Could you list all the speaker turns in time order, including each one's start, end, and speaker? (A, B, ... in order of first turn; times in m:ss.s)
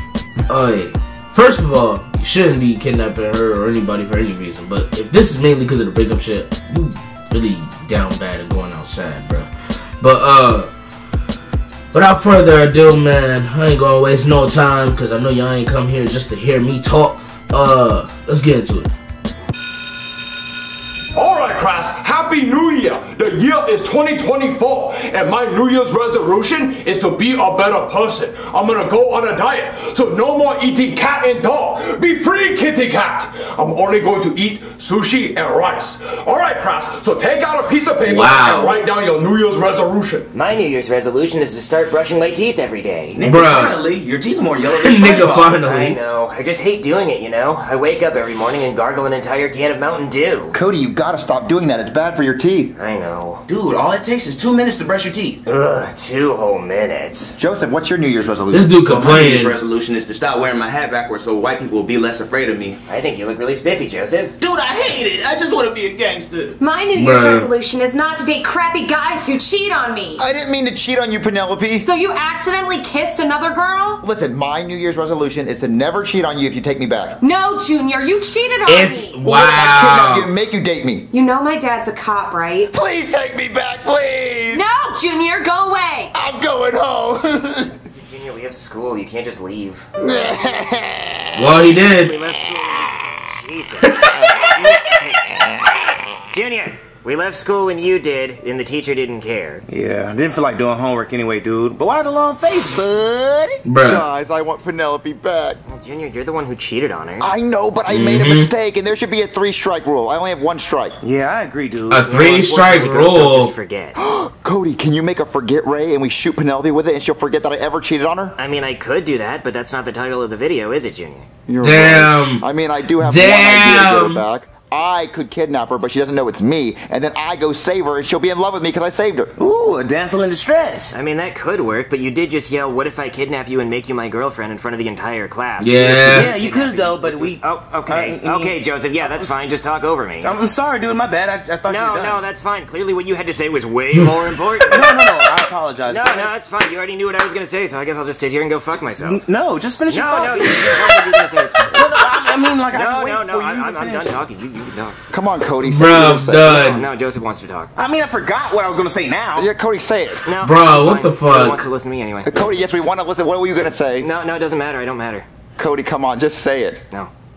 0:00.5-0:10.7 A
0:11.9-0:18.9 A
0:21.1-0:40.3 B
0:38.0-0:38.7 A
0:40.3-0:43.2 C
0:43.1-0:45.6 D
0:43.2-0:43.8 A
0:44.7-0:46.0 A
0:45.6-0:50.5 C
0:50.5-0:52.7 E
0:52.7-0:53.4 C
0:53.5-0:55.4 D
0:55.4-0:57.4 C
0:57.4-0:58.7 E
0:58.5-0:59.6 A
0:58.8-1:02.8 D
1:02.9-1:04.4 C
1:04.4-1:06.6 D
1:06.6-1:10.2 F
1:07.0-1:07.4 A
1:10.2-1:11.9 E
1:11.8-1:14.0 F
1:14.0-1:17.2 E
1:17.2-1:19.2 F
1:18.6-1:20.3 A
1:19.2-1:21.1 E
1:21.1-1:22.7 F
1:22.7-1:24.6 E
1:24.5-1:26.1 F
1:26.1-1:27.7 E
1:27.9-1:29.9 C
1:30.0-1:31.6 E
1:31.4-1:32.2 A
1:31.7-1:35.6 C
1:32.6-1:33.0 E
1:35.4-1:35.8 E
1:36.3-1:39.6 C
1:39.7-1:43.6 D
1:43.6-1:44.0 A
1:43.8-1:45.6 E
1:45.7-1:47.3 C
1:47.2-1:51.0 E
1:47.9-1:48.5 A
1:51.0-1:52.0 D
1:51.9-1:53.5 A
1:52.0-1:54.0 C
1:54.0-1:58.4 E
1:58.4-2:01.2 C
2:01.5-2:09.3 E
2:01.6-2:02.4 A
2:03.0-2:04.2 A
2:09.4-2:11.0 D
2:10.9-2:20.4 C
2:15.6-2:16.3 A
2:16.1-2:19.3 D
2:20.2-2:22.2 D
2:21.7-2:25.2 C
2:24.7-2:26.3 D
2:25.9-2:29.2 C
2:29.0-2:34.2 D
2:29.9-2:32.0 C
2:32.7-2:35.0 C
2:35.1-2:36.5 E
2:35.6-2:36.8 A
2:36.5-2:37.7 C
2:37.8-2:39.5 D
2:39.4-2:40.2 E
2:40.2-2:42.3 C
2:40.4-2:41.6 A
2:42.2-2:44.1 E
2:44.0-2:45.2 C
2:45.6-2:46.8 E